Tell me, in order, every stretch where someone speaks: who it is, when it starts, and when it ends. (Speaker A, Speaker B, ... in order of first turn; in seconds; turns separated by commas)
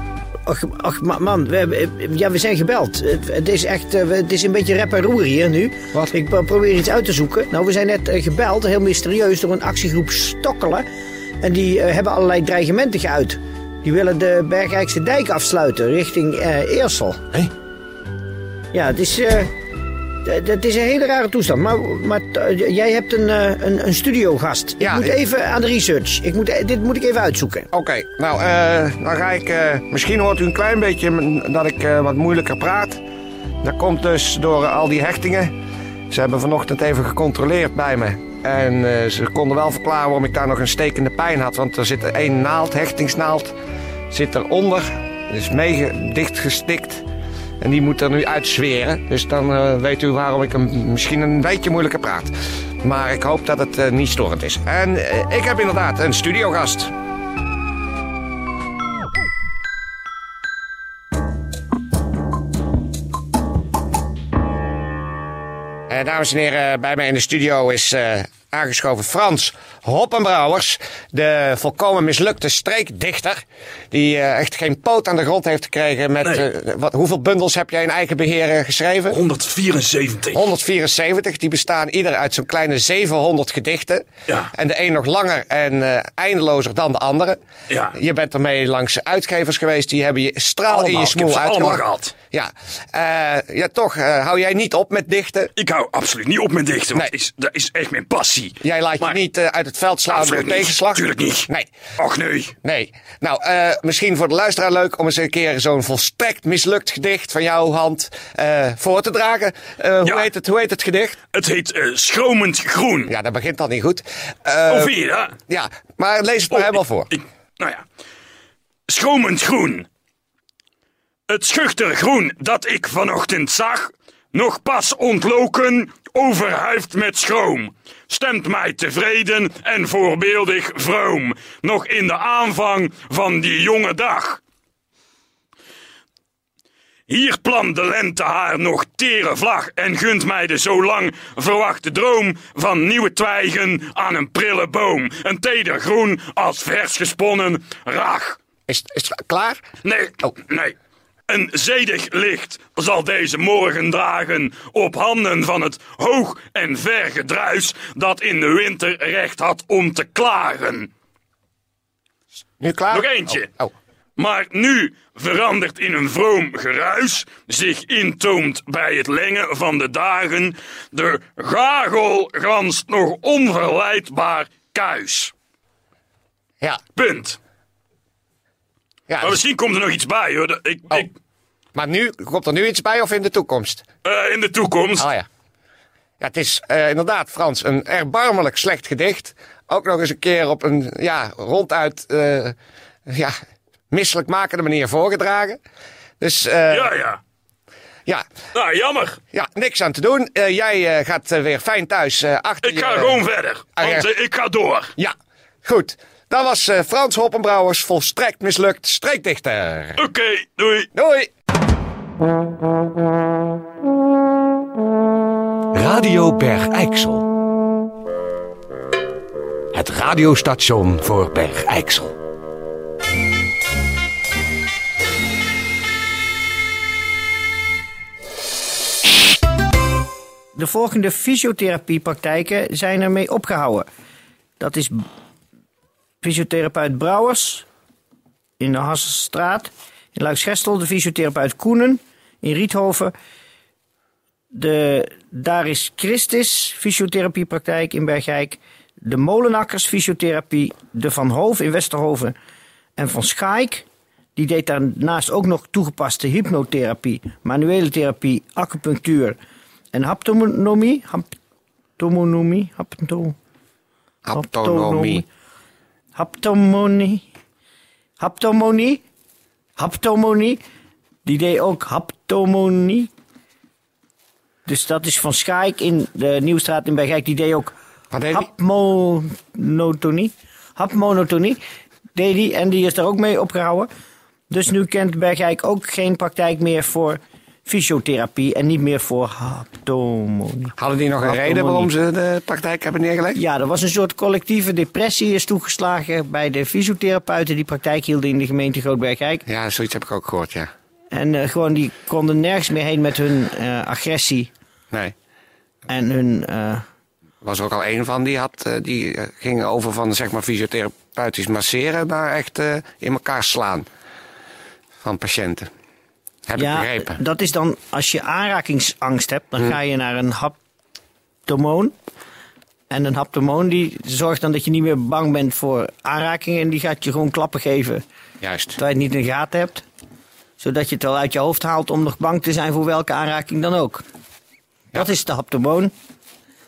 Speaker A: 0.5-10.9, Speaker A: 11.4-17.2, Speaker A: 18.7-19.5, Speaker A: 20.2-27.7, Speaker B: 24.8-25.1, Speaker B: 27.7-33.0, Speaker B: 33.6-35.5, Speaker B: 36.1-43.5, Speaker B: 44.1-47.0, Speaker B: 47.6-56.9, Speaker B: 65.9-79.2, Speaker C: 79.3-79.6, Speaker B: 80.3-87.4, Speaker B: 87.9-95.5, Speaker B: 98.6-101.7, Speaker B: 102.6-111.2, Speaker C: 111.7-113.1, Speaker B: 113.1-114.9, Speaker C: 114.7-115.3, Speaker B: 115.5-117.1, Speaker C: 122.3-122.8, Speaker C: 123.3-134.4, Speaker C: 137.1-148.3, Speaker B: 148.7-149.6, Speaker C: 149.9-150.7, Speaker C: 151.3-160.8, Speaker B: 162.6-163.7, Speaker C: 163.0-163.3, Speaker C: 164.2-175.3, Speaker C: 177.0-177.4, Speaker B: 179.1-179.4, Speaker C: 179.3-181.0, Speaker B: 181.8-183.8, Speaker C: 184.1-185.1, Speaker B: 185.0-185.3, Speaker B: 186.2-192.6, Speaker B: 193.1-193.3, Speaker B: 193.9-195.6, Speaker B: 196.2-196.9, Speaker C: 196.8-197.2, Speaker C: 198.6-199.2, Speaker B: 199.3-203.2, Speaker C: 202.8-204.9, Speaker B: 203.8-204.1, Speaker B: 205.7-210.0, Speaker C: 210.1-210.9, Speaker B: 210.9-211.3, Speaker D: 215.8-216.7, Speaker B: 215.9-217.2, Speaker D: 219.8-220.2, Speaker B: 219.8-220.4, Speaker D: 220.9-221.9, Speaker B: 221.3-222.0, Speaker A: 230.6-233.9, Speaker A: 234.6-235.1, Speaker A: 236.2-237.7, Speaker A: 238.6-243.1, Speaker A: 244.5-252.3, Speaker A: 253.0-259.4, Speaker A: 259.9-261.4, Speaker A: 262.0-263.4, Speaker B: 264.2-265.2, Speaker A: 264.3-265.3, Speaker A: 266.1-267.2, Speaker A: 268.2-269.0, Speaker A: 269.8-270.6, Speaker A: 271.2-273.1, Speaker A: 274.7-277.7, Speaker B: 278.1-278.4, Speaker A: 278.3-281.6, Speaker A: 282.2-283.9, Speaker A: 284.5-291.9, Speaker B: 290.8-293.4, Speaker A: 293.4-299.4, Speaker B: 299.5-300.7, Speaker A: 301.1-304.5, Speaker A: 305.9-306.8, Speaker B: 307.4-313.9, Speaker B: 315.0-315.7, Speaker B: 316.5-317.2, Speaker A: 316.6-320.6, Speaker A: 321.5-321.9, Speaker A: 322.9-328.0, Speaker B: 328.4-328.8, Speaker A: 328.8-329.9, Speaker A: 330.6-334.0, Speaker A: 334.9-335.9